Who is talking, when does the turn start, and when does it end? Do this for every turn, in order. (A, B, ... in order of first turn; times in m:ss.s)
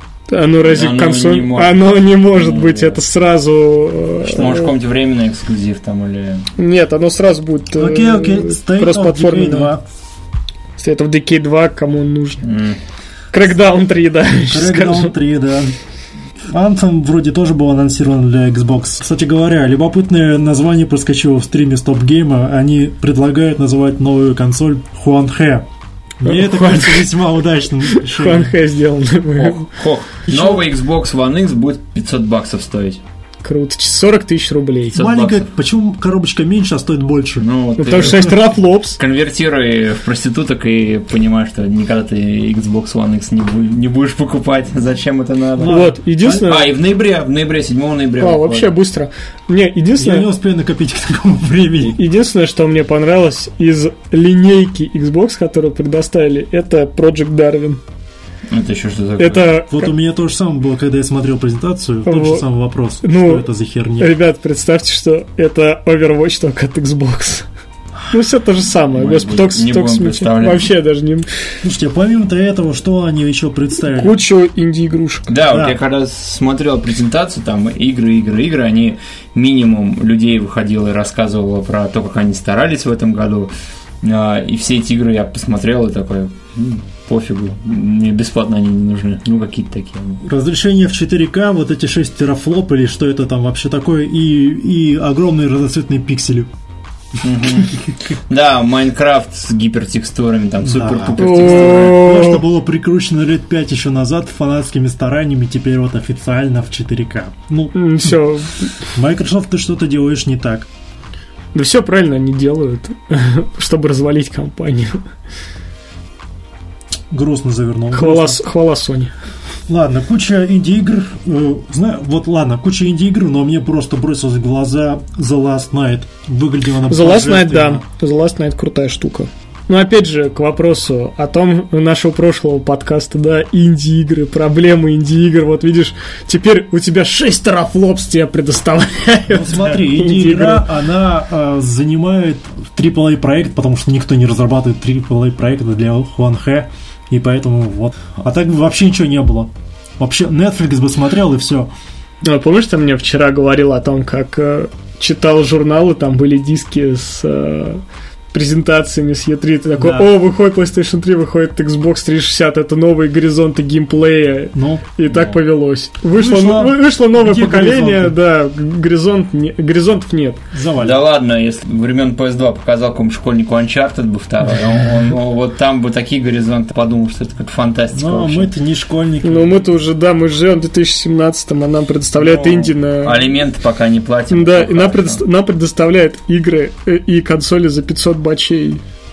0:00.3-0:04.7 A
0:00.6-0:03.0 B
0:04.2-0:06.5 B
0:06.6-0:09.7 A
0:07.7-0:09.8 C
0:10.8-0:12.4 A
0:12.4-0:12.8 B
0:13.3-0:15.1 A
0:14.5-0:15.7 C
0:16.5-0:25.6 C
0:26.2-0:28.5 C
0:26.2-0:27.1 A
0:27.8-0:29.7 A
0:29.4-0:33.0 B
0:30.3-0:30.6 C
0:33.4-0:35.0 A
0:34.9-0:35.4 B
0:34.9-0:38.3 C
0:37.4-0:38.4 B
0:37.8-0:39.0 A
0:39.0-0:45.8 B
0:45.6-0:46.5 C
0:45.7-0:46.7 A
0:46.4-0:48.7 B
0:48.2-0:50.3 A
0:50.0-0:52.0 C
0:51.9-0:57.8 A
0:58.5-0:59.6 B
0:59.2-0:59.9 A
0:59.7-1:04.2 C
1:02.0-1:02.4 A
1:03.0-1:03.5 A
1:04.0-1:07.5 A
1:08.1-1:11.3 A
1:08.9-1:10.7 B
1:11.6-1:14.2 C
1:13.8-1:15.3 A
1:15.3-1:30.2 B
1:15.5-1:15.8 C
1:30.2-1:36.5 C
1:37.2-1:42.1 B
1:40.6-1:48.2 C
1:41.2-1:42.4 A
1:47.7-1:48.7 A
1:48.9-1:50.7 C
1:51.5-1:55.0 A
1:57.1-1:58.4 C
1:57.9-1:59.1 A
1:59.7-2:07.8 C
2:06.9-2:20.7 A
2:19.3-2:31.7 C
2:32.2-2:50.4 A
2:39.8-2:40.1 C
2:44.5-2:44.9 C
2:45.1-2:45.4 B
2:46.1-2:48.2 C
2:50.5-2:51.0 C
2:50.8-2:58.5 B
2:57.9-2:59.6 C
2:59.2-3:03.3 A
3:02.2-3:05.2 B
3:04.3-3:08.8 A